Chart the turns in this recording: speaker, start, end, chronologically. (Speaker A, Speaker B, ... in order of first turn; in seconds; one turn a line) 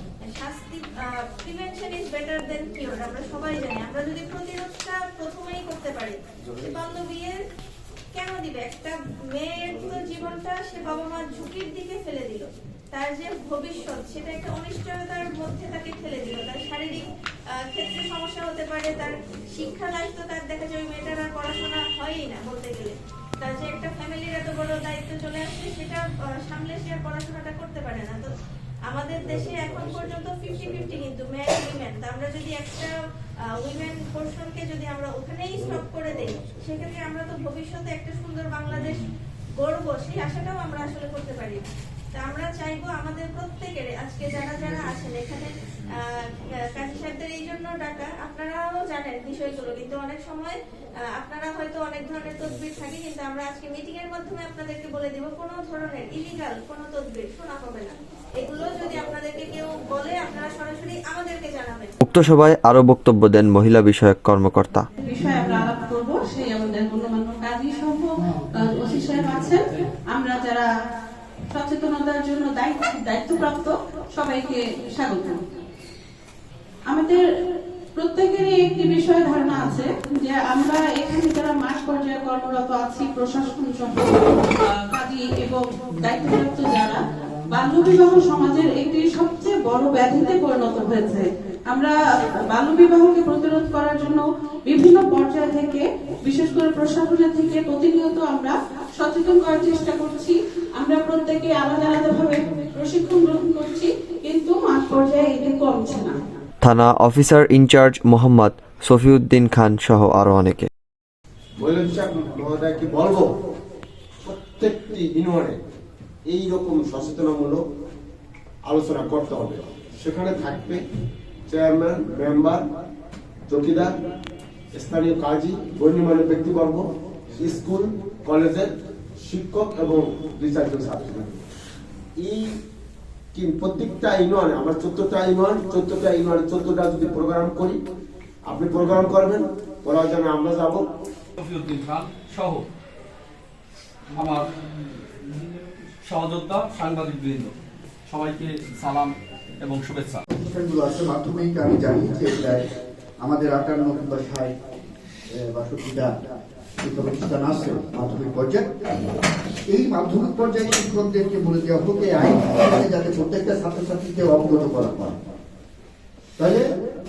Speaker A: 0.2-7.4
Speaker A: 8.1-17.0
Speaker A: 17.7-28.3
Speaker A: 28.9-32.9
Speaker A: 33.6-39.0
Speaker A: 39.6-50.6
Speaker A: 51.1-62.0
Speaker B: 62.0-64.8
Speaker C: 65.0-70.7
Speaker C: 71.5-75.4
Speaker C: 76.9-77.2
Speaker C: 78.0-106.2
Speaker B: 106.6-110.7
Speaker D: 111.6-113.3
Speaker D: 114.2-115.6
Speaker D: 116.3-117.6
Speaker D: 118.7-120.8
Speaker D: 121.5-122.6
Speaker D: 123.5-123.9
Speaker D: 124.7-126.8
Speaker D: 127.4-131.4
Speaker D: 132.2-132.4
Speaker D: 133.3-137.8
Speaker D: 138.4-140.8
Speaker E: 141.4-142.7
Speaker E: 144.1-144.5
Speaker E: 146.1-147.5
Speaker E: 148.1-150.2
Speaker F: 150.3-152.6
Speaker F: 153.2-154.5
Speaker F: 155.5-156.1
Speaker F: 156.8-159.0
Speaker F: 159.7-165.2
Speaker F: 166.4-166.7